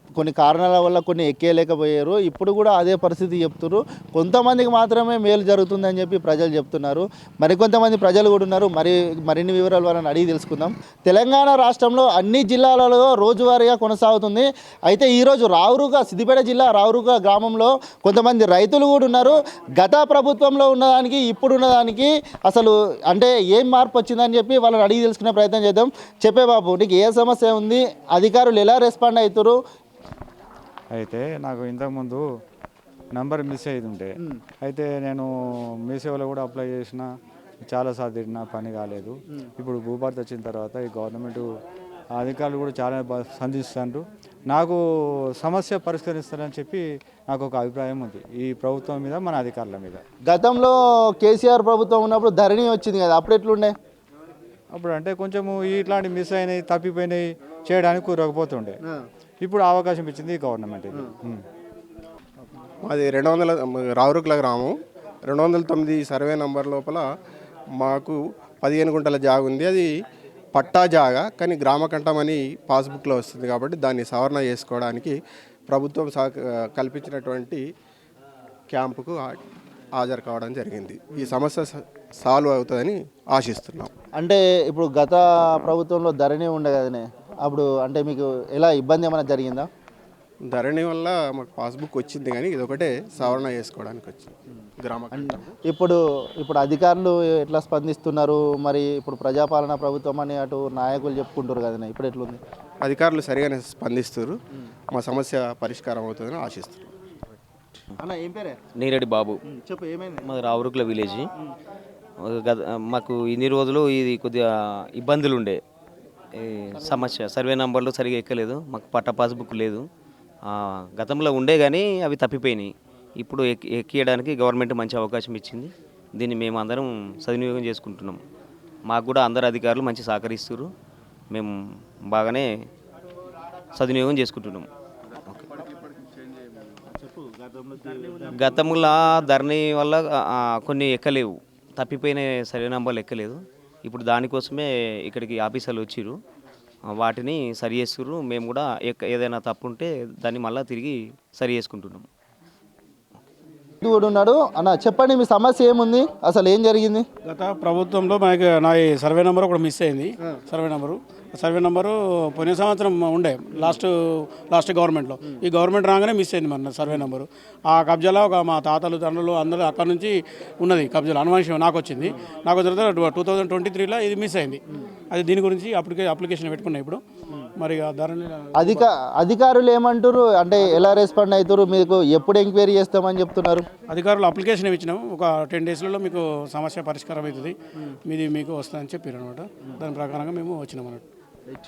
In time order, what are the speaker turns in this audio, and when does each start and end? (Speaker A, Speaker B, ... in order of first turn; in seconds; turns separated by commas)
Speaker A: 0.1-29.6, Speaker B: 30.9-32.2, Speaker B: 33.1-35.3, Speaker B: 35.9-37.1, Speaker B: 37.7-41.5, Speaker B: 42.1-44.8, Speaker B: 45.4-50.0, Speaker A: 50.3-53.7, Speaker B: 54.7-58.8, Speaker B: 59.4-61.4, Speaker C: 62.8-64.7, Speaker C: 65.3-67.0, Speaker C: 67.8-69.9, Speaker C: 70.5-75.1, Speaker C: 75.7-77.6, Speaker C: 78.7-79.4, Speaker C: 80.0-83.9, Speaker A: 84.2-89.7, Speaker C: 90.4-95.5, Speaker A: 95.1-102.4, Speaker C: 102.8-104.4, Speaker C: 104.9-106.9, Speaker A: 108.0-108.6, Speaker D: 108.8-109.4, Speaker A: 109.5-110.3, Speaker D: 110.2-111.3, Speaker D: 112.2-115.6, Speaker D: 116.3-119.8, Speaker D: 120.5-128.2, Speaker D: 128.9-130.7, Speaker D: 132.1-132.5, Speaker D: 133.7-135.6, Speaker D: 138.3-146.2, Speaker D: 146.9-152.1, Speaker A: 153.8-157.1, Speaker E: 157.2-163.9, Speaker E: 164.5-174.6, Speaker E: 175.1-177.0, Speaker E: 177.6-178.8, Speaker A: 178.6-183.6, Speaker E: 183.9-187.5, Speaker E: 188.1-191.0